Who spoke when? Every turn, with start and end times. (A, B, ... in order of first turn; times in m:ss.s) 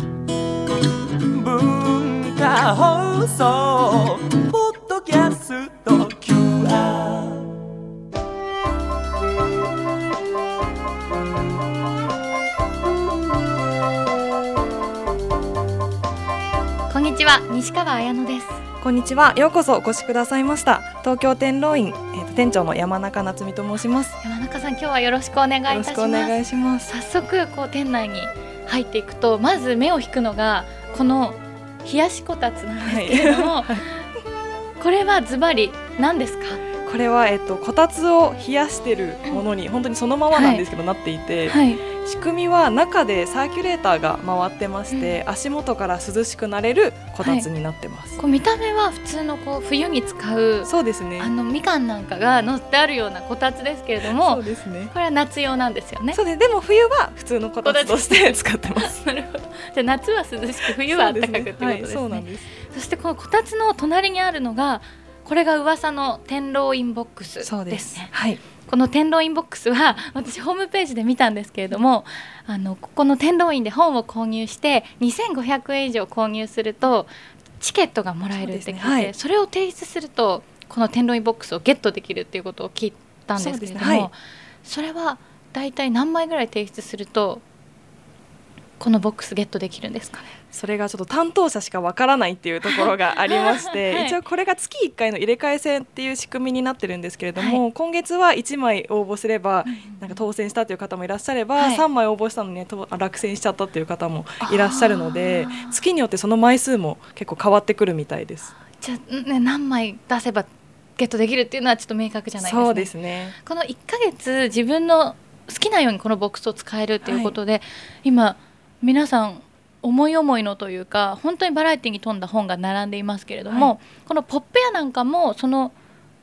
0:01.3-0:07.4 A
0:16.9-0:18.6 B
0:18.8-0:24.2 C
0:24.2-0:34.0 B
0:25.7-0:26.9 C
0:32.8-0:33.9 C
0:34.8-0:36.6 B
0:36.8-0:48.2 C
0:40.3-0:40.6 B
0:41.5-0:41.8 B
0:44.9-0:45.2 B
0:48.2-0:56.2 B
0:50.6-0:51.3 C
0:54.0-0:54.9 C
0:56.1-0:59.0 C
0:57.6-1:08.1 B
1:00.6-1:02.5 C
1:07.4-1:08.4 C
1:08.6-1:27.4 B
1:18.4-1:19.1 C
1:23.4-1:24.1 C
1:28.8-1:30.4 B
1:30.5-1:48.5 C
1:32.6-1:34.2 B
1:37.4-1:37.6 B
1:39.6-1:40.2 B
1:41.6-1:41.8 B
1:44.4-1:45.8 B
1:48.6-2:05.8 B
1:52.4-1:53.4 C
1:57.0-1:57.4 C
2:03.5-2:03.7 C